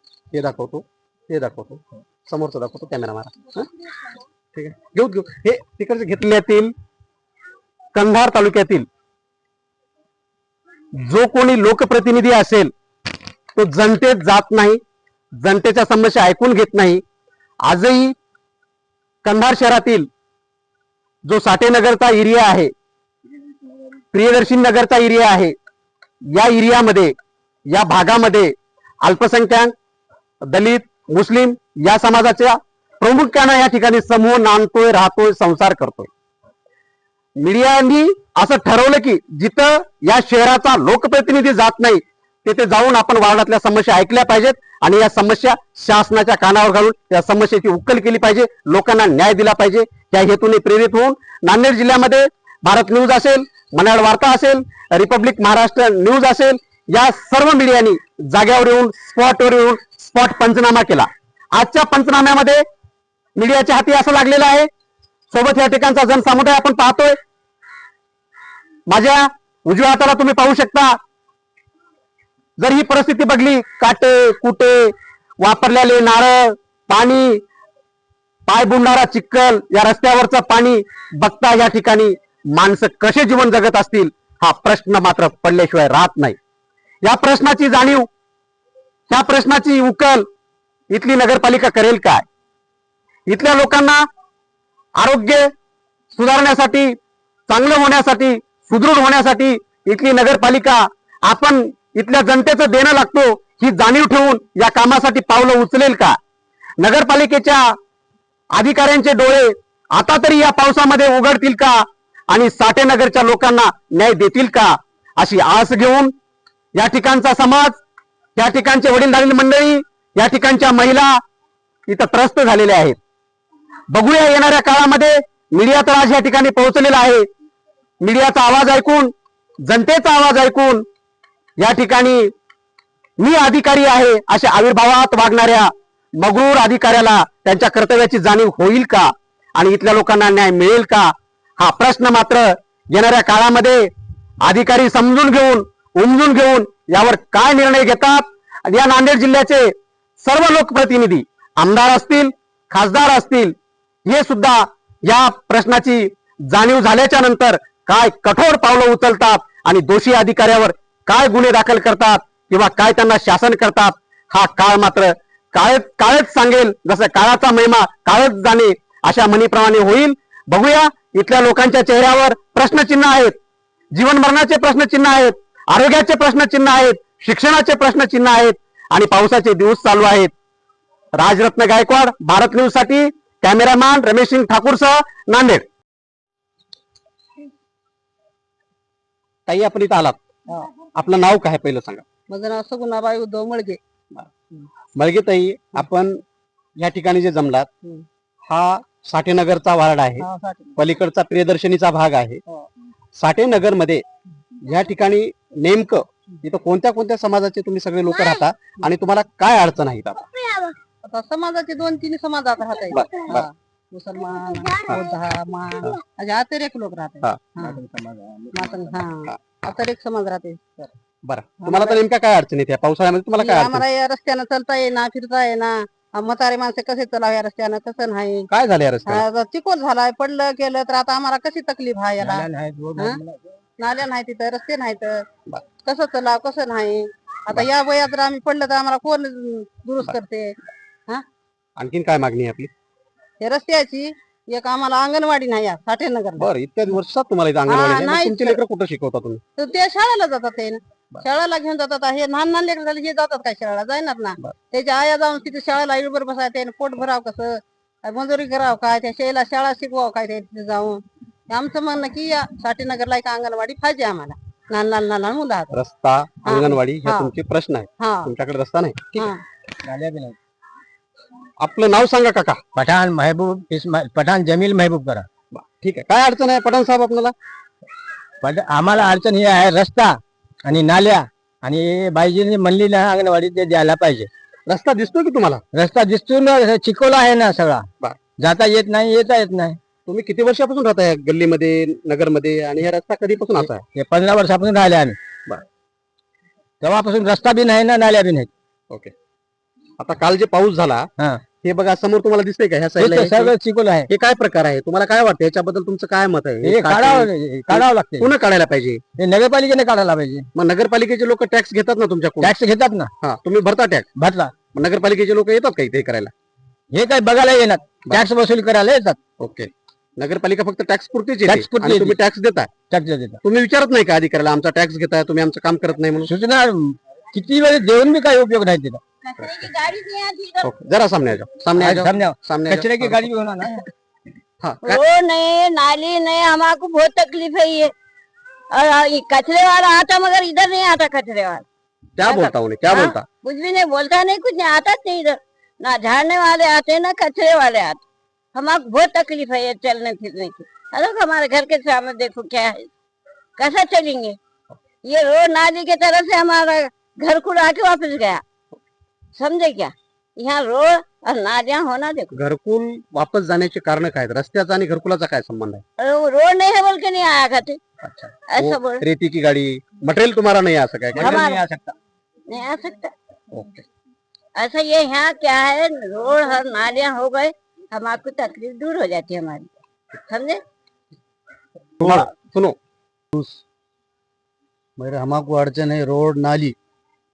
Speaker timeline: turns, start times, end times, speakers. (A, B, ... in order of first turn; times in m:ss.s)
0:00.3-0:03.7 A
0:04.5-0:06.7 A
0:07.9-0:08.8 A
0:11.0-0:12.7 A
0:13.5-0:14.8 A
0:15.4-0:17.0 A
0:17.6-0:18.2 A
0:19.2-0:20.1 A
0:21.2-0:22.7 A
0:24.1-0:25.5 A
0:26.3-0:27.1 A
0:27.7-0:29.7 A
0:30.4-0:36.1 A
0:37.4-1:02.6 A
1:03.4-1:04.7 A
1:05.3-1:07.2 A
1:08.9-1:11.0 A
1:12.6-1:17.4 A
1:18.5-1:26.4 A
1:27.0-1:28.1 A
1:29.1-1:30.2 A
1:30.9-1:32.2 A
1:33.3-1:34.0 A
1:35.0-1:35.5 A
1:36.1-1:37.0 A
1:37.5-1:46.2 A
1:46.8-1:47.8 A
1:48.5-1:56.1 A
1:56.8-1:57.8 A
1:58.4-2:01.2 A
2:01.9-2:03.0 A
2:03.9-2:07.2 A
2:08.0-2:09.1 A
2:09.6-2:10.8 A
2:11.6-2:12.3 A
2:13.2-2:23.9 A
2:24.4-2:33.5 A
2:34.0-2:53.4 A
2:53.9-3:00.3 A
3:01.2-3:05.6 A
3:09.5-3:10.2 A
3:10.9-3:12.0 A
3:12.3-3:13.8 B
3:15.0-3:16.2 A
3:16.8-3:17.7 A
3:18.4-3:20.2 A
3:20.2-3:20.8 B
3:20.8-3:22.4 A
3:23.2-3:24.0 A
3:24.6-3:30.2 A
3:30.3-3:30.7 C
3:31.0-3:37.8 B
3:32.9-3:33.5 A
3:37.6-3:39.0 D
3:38.5-3:40.9 B
3:39.3-3:39.6 A
3:41.2-3:43.8 A
3:41.6-3:42.0 B
3:43.4-3:48.5 B
3:48.5-3:49.2 A
3:49.0-3:53.2 B
3:52.2-3:53.4 D
3:53.8-3:55.2 B
3:55.8-4:00.6 B
4:01.8-4:02.7 A
4:03.4-4:06.5 B
4:06.4-4:09.4 A
4:07.7-4:08.6 B
4:09.6-4:25.7 B
4:25.7-4:29.3 A
4:26.4-4:27.3 B
4:28.0-4:28.3 B
4:29.8-4:30.4 D
4:31.6-4:32.6 A
4:32.7-4:35.2 D
4:35.5-4:37.3 A
4:38.4-4:44.3 D
4:44.7-4:45.6 A
4:45.7-4:47.8 D
4:48.4-4:49.8 D
4:50.1-4:53.8 A
4:53.6-4:55.2 D
4:56.8-4:58.5 D
5:00.0-5:01.1 A
5:01.6-5:03.5 A
5:03.0-5:04.1 D
5:04.1-5:09.0 A
5:06.6-5:08.3 D
5:09.2-5:10.5 D
5:10.5-5:12.5 A
5:12.4-5:13.1 D
5:13.2-5:14.1 A
5:14.2-5:14.5 D
5:14.7-5:16.3 A
5:16.9-5:19.2 D
5:19.4-5:22.7 A
5:21.4-5:22.2 D
5:22.9-5:23.4 D
5:23.4-5:26.3 A
5:26.2-5:29.0 D
5:29.2-5:30.7 C
5:30.6-5:33.2 A
5:31.8-5:33.8 D
5:34.6-5:35.0 A
5:34.8-5:37.9 C
5:38.7-5:41.6 C
5:42.2-5:43.2 A
5:42.2-5:48.0 C
5:48.5-5:52.8 C
5:53.6-5:54.4 C
5:55.0-5:58.4 C
5:59.4-6:02.3 C
6:02.3-6:05.8 A
6:06.0-6:07.8 C
6:08.0-6:11.4 A
6:08.5-6:09.0 C
6:11.1-6:11.9 D
6:11.2-6:11.6 C
6:12.5-6:13.1 C
6:13.5-6:13.8 A
6:14.6-6:19.7 C
6:20.3-6:20.6 C
6:22.0-6:22.8 A
6:22.0-6:22.3 E
6:23.3-6:23.6 E
6:25.0-6:26.7 E